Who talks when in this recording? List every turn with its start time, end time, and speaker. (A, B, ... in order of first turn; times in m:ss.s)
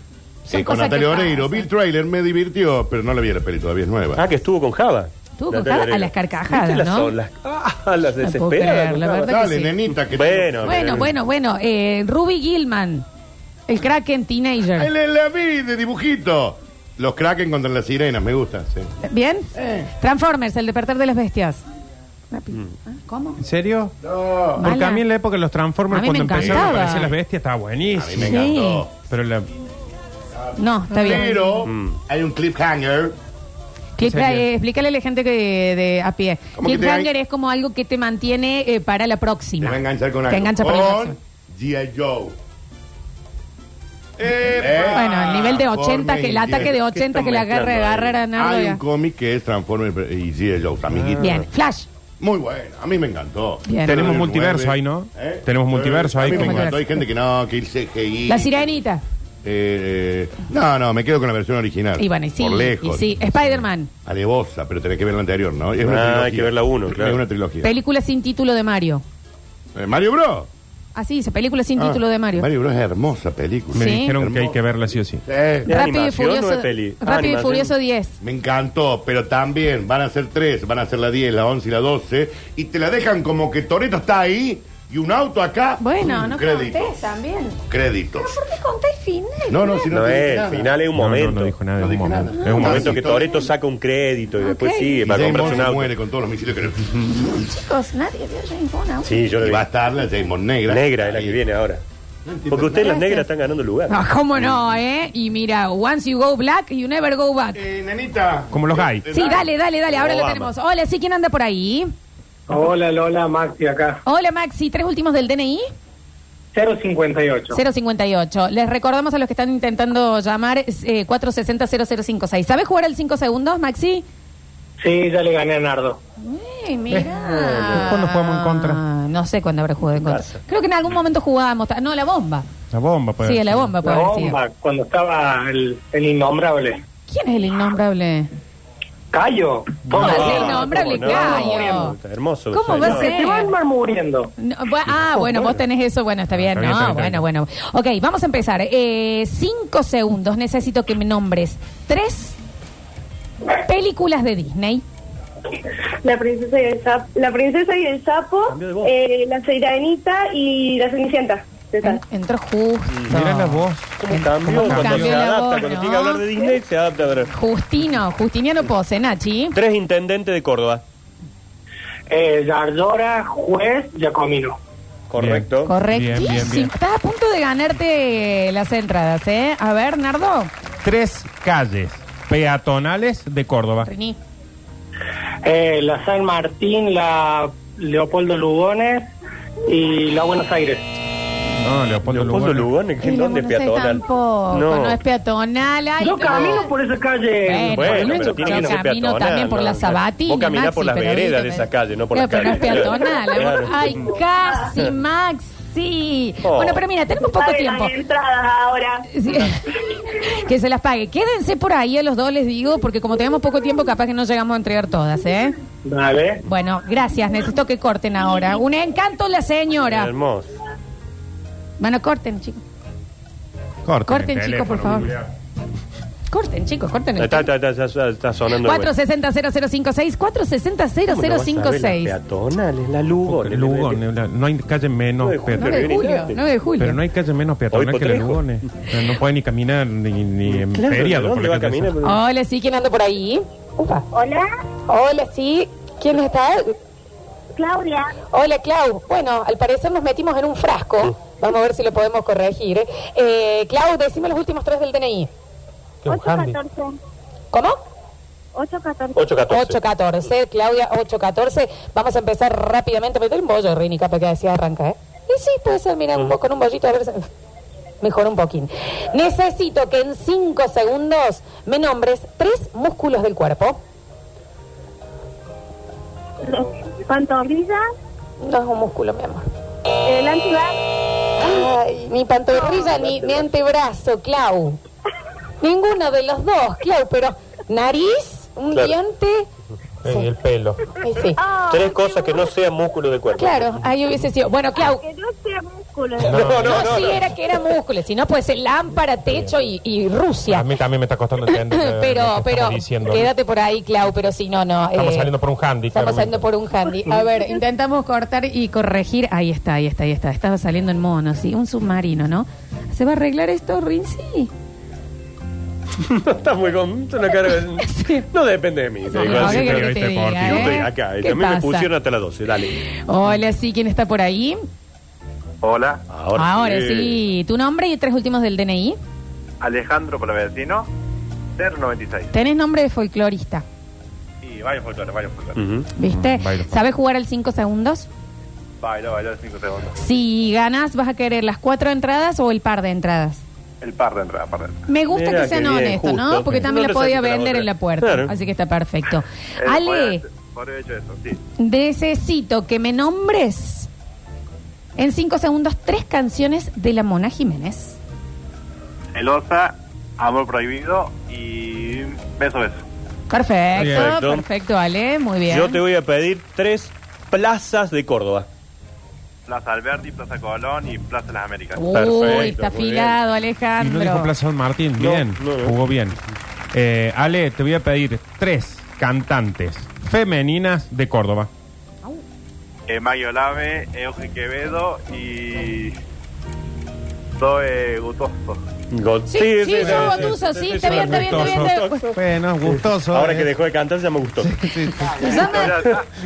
0:00.5-0:01.7 A
0:00.5-0:04.2 B
0:04.1-0:09.3 C
0:05.4-0:07.1 A
0:08.2-0:09.7 A
0:09.2-0:11.1 B
0:10.1-0:11.1 C
0:10.6-0:13.0 A
0:13.7-0:14.9 A
0:14.8-0:18.9 B
0:19.0-0:21.6 A
0:19.5-0:19.9 B
0:22.3-0:23.4 A
0:23.4-0:23.9 D
0:24.0-0:24.6 B
0:24.6-0:25.0 A
0:24.6-0:28.4 D
0:25.9-0:27.1 A
0:26.3-0:26.8 B
0:27.9-0:28.9 B
0:28.2-0:28.8 A
0:29.0-0:29.5 D
0:30.6-0:31.3 A
0:31.0-0:33.1 B
0:31.6-0:32.0 C
0:34.0-0:41.2 A
0:34.0-0:34.4 D
0:36.6-0:37.1 B
0:39.6-0:42.4 B
0:44.2-0:46.8 B
0:44.6-0:48.8 A
0:46.6-0:48.2 C
0:48.3-0:51.4 B
0:51.2-0:51.9 A
0:52.2-0:58.7 B
0:53.6-0:54.1 A
0:53.8-0:56.7 D
0:56.2-0:57.0 A
0:58.3-0:59.0 A
0:59.4-1:03.1 B
1:02.0-1:03.9 A
1:04.0-1:07.7 B
1:05.8-1:07.2 C
1:07.6-1:09.0 A
1:09.7-1:10.5 B
1:10.9-1:12.5 A
1:11.8-1:14.6 B
1:13.7-1:15.2 D
1:13.7-1:14.2 A
1:15.2-1:15.7 B
1:15.6-1:17.7 C
1:15.7-1:18.2 A
1:18.2-1:27.0 B
1:25.8-1:27.6 A
1:27.7-1:28.4 B
1:28.2-1:29.9 A
1:29.5-1:30.8 B
1:29.9-1:31.5 C
1:30.9-1:32.8 D
1:31.8-1:33.5 B
1:32.4-1:33.4 A
1:32.6-1:36.0 C
1:34.4-1:35.2 A
1:35.0-1:37.0 B
1:37.3-1:39.1 A
1:39.0-1:39.6 C
1:39.4-1:41.4 B
1:40.7-1:41.8 C
1:42.2-1:42.9 B
1:42.5-1:44.5 C
1:42.8-1:43.3 A
1:43.9-1:47.6 A
1:47.5-1:49.5 B
1:48.5-1:49.1 D
1:49.1-1:51.9 A
1:49.9-1:50.5 C
1:52.5-1:54.0 E
1:54.0-1:55.6 A
1:56.5-1:57.6 E
1:57.5-2:04.0 A
2:04.8-2:06.0 E
2:06.2-2:12.4 A
2:07.2-2:08.0 C
2:07.7-2:08.8 D
2:10.0-2:10.4 C
2:12.7-2:13.7 D
2:13.2-2:14.4 A
2:13.8-2:16.8 E
2:17.1-2:18.3 A
2:19.1-2:21.8 E
2:19.9-2:22.0 A
2:19.9-2:23.2 C
2:22.5-2:23.5 A
2:22.8-2:24.3 E
2:24.4-2:32.4 A
2:26.4-2:27.2 D
2:33.6-2:34.8 A
2:36.0-2:42.0 F
2:38.5-2:38.9 C
2:41.8-2:46.2 A
2:42.9-2:43.2 C
2:43.1-2:45.3 D
2:44.0-2:47.3 C
2:47.3-2:49.6 A
2:49.5-2:50.8 C
2:52.1-2:54.6 E
2:55.1-2:55.7 C
2:55.2-2:56.7 D
2:55.6-3:00.5 A
3:00.8-3:03.9 D
3:03.8-3:04.2 A
3:05.4-3:09.1 E
3:09.7-3:10.8 E
3:11.6-3:12.7 D
3:12.0-3:15.0 C
3:13.0-3:16.7 A
3:16.0-3:18.7 E
3:17.4-3:28.0 A
3:17.5-3:24.2 C
3:26.4-3:26.8 C
3:27.1-3:28.9 G
3:29.1-3:35.5 A
3:35.8-3:36.4 E
3:36.5-3:40.1 A
3:39.9-3:40.5 C
3:41.8-3:42.6 A
3:43.8-3:45.2 D
3:44.1-3:45.1 A
3:46.3-3:47.5 A
3:47.2-3:48.9 C
3:48.6-3:52.1 A
3:51.1-3:54.0 C
3:53.2-3:55.9 D
3:55.2-3:56.4 C
3:55.5-3:57.0 A
3:56.8-4:01.9 D
3:57.7-3:58.5 C
4:00.4-4:02.2 C
4:02.0-4:04.0 A
4:04.1-4:04.5 G
4:04.9-4:06.7 A
4:07.6-4:08.2 G
4:08.3-4:15.3 A
4:16.0-4:16.6 D
4:16.1-4:17.0 G
4:17.5-4:17.8 A
4:18.5-4:19.2 G
4:19.1-4:19.8 C
4:19.5-4:27.2 A
4:28.0-4:33.8 A
4:36.4-4:37.8 G
4:38.4-4:39.4 A
4:40.0-4:40.8 G
4:41.4-4:44.8 A
4:42.5-4:42.9 G
4:45.6-4:49.4 A
4:50.0-4:50.7 D
4:50.0-4:50.3 A
4:50.6-4:50.8 C
4:50.9-4:51.4 A
4:51.4-4:52.4 G
4:51.7-4:53.7 C
4:53.4-4:55.0 A
4:54.8-4:56.5 G
4:56.2-4:57.2 D
4:56.2-4:57.2 C
4:56.6-5:00.7 A
5:00.5-5:03.3 D
5:01.5-5:05.3 A
5:04.9-5:06.4 D
5:05.9-5:14.5 A
5:16.0-5:22.8 C
5:17.8-5:18.3 A
5:19.1-5:21.9 A
5:19.1-5:20.8 D
5:22.9-5:24.6 A
5:25.6-5:26.0 H
5:26.1-5:27.2 C
5:26.3-5:29.0 A
5:29.6-5:30.9 H
5:31.6-5:32.3 H
5:32.3-5:33.6 A
5:34.4-5:35.6 H
5:35.6-5:35.9 C
5:36.0-5:36.8 D
5:36.0-5:38.1 A
5:38.8-5:40.0 H
5:40.0-5:43.4 A
5:43.8-5:44.8 H
5:44.9-5:50.2 A
5:45.1-5:48.3 C
5:49.6-5:51.4 H
5:51.6-5:53.9 A
5:55.0-5:58.0 A
5:59.1-6:02.8 H
6:03.3-6:05.8 A
6:03.8-6:04.4 C
6:03.8-6:04.1 D
6:05.5-6:08.5 C
6:09.5-6:11.8 H
6:11.8-6:14.3 A
6:11.9-6:13.2 C
6:13.8-6:16.2 D
6:15.0-6:15.7 C
6:16.7-6:21.5 D
6:22.9-6:25.9 H
6:27.4-6:28.6 H
6:28.9-6:36.0 C
6:29.3-6:32.1 A
6:29.8-6:33.5 D
6:34.4-6:35.7 D
6:35.1-6:35.9 A
6:35.5-6:36.0 H